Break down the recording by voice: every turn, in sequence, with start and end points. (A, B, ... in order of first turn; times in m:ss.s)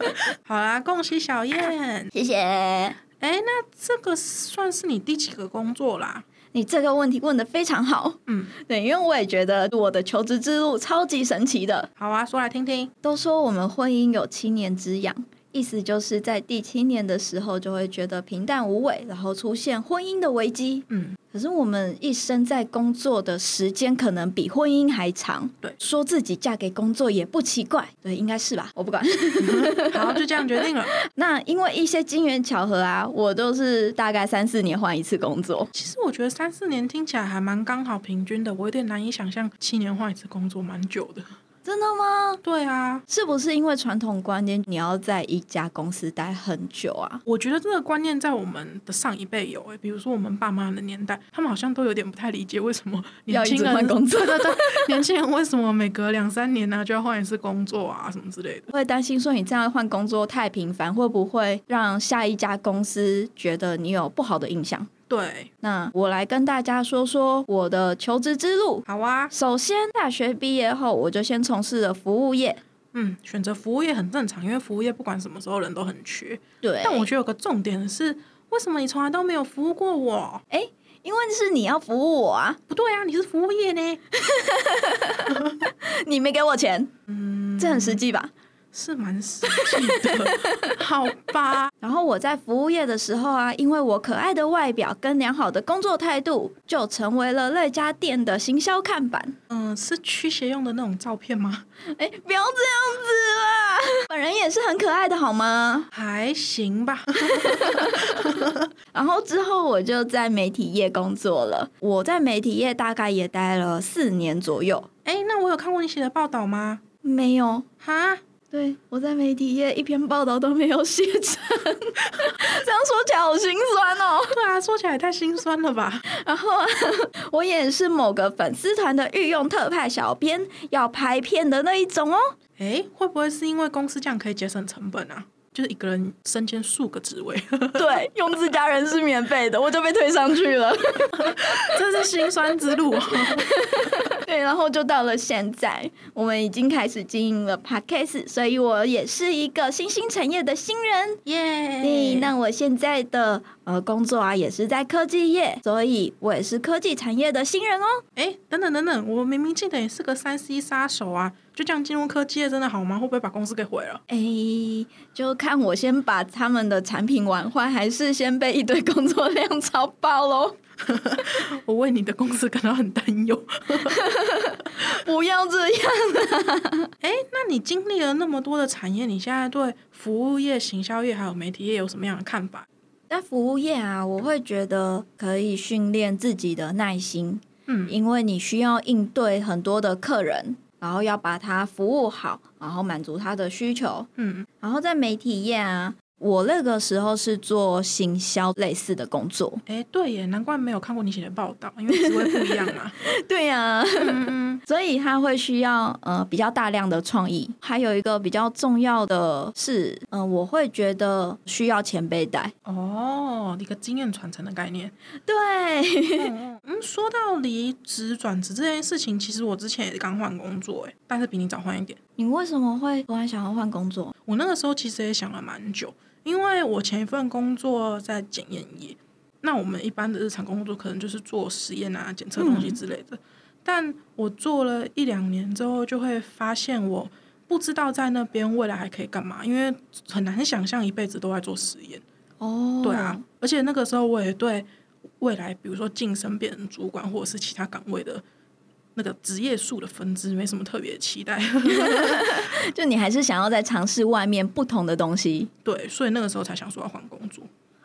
0:00.4-0:02.1 A
0:02.1-0:03.0 B
0:03.2-0:06.2 A
0:06.5-0:11.9 B
0:08.3-0:08.5 A
0:12.0-0:12.9 A
0:13.0-0:30.2 B
0:20.9-0:21.2 A
0:29.4-0:31.0 A
0:31.0-0:35.7 B
0:35.7-0:41.3 A
0:41.6-0:42.4 B
0:42.4-0:43.0 A
0:43.1-0:47.2 B
0:47.3-0:58.7 A
0:53.3-0:55.0 B
0:58.7-1:04.9 B
1:05.1-1:05.5 A
1:05.6-1:12.6 B
1:08.9-1:09.3 A
1:12.9-1:20.4 A
1:16.6-1:17.1 B
1:20.5-1:22.6 B
1:22.7-1:24.0 A
1:24.1-1:26.9 B
1:25.3-1:25.6 A
1:27.1-1:28.0 A
1:27.6-1:28.3 B
1:28.7-1:31.7 A
1:29.6-1:30.7 B
1:31.8-1:39.4 B
1:39.5-1:41.6 A
1:41.9-1:45.9 B
1:45.9-1:48.7 A
1:47.3-1:48.1 B
1:48.9-1:54.9 B
1:55.0-1:56.8 A
1:57.0-1:57.7 B
1:57.8-1:58.2 A
1:58.5-2:04.4 B
2:04.3-2:06.1 A
2:06.1-2:12.3 B
2:12.6-2:18.1 A
2:17.8-2:21.7 B
2:21.2-2:23.5 A
2:23.2-2:31.2 B
2:31.3-2:32.3 A
2:31.8-2:38.0 B
2:38.2-2:44.0 A
2:44.1-2:50.6 B
2:50.9-2:54.0 A
2:54.0-2:56.9 B
2:57.0-3:02.7 A
3:03.1-3:14.1 B
3:07.7-3:08.0 A
3:14.2-3:14.5 A
3:14.6-3:19.6 B
3:19.7-3:23.0 A
3:22.1-3:32.5 B
3:24.0-3:24.6 A
3:32.6-3:34.9 A
3:35.3-3:36.3 B
3:36.2-3:42.0 A
3:42.2-3:44.1 B
3:44.3-4:02.0 A
3:52.4-3:52.8 B
4:02.4-4:03.2 B
4:02.8-4:04.7 A
4:05.2-4:08.2 A
4:09.0-4:12.4 A
4:11.8-4:15.5 B
4:15.6-4:17.5 A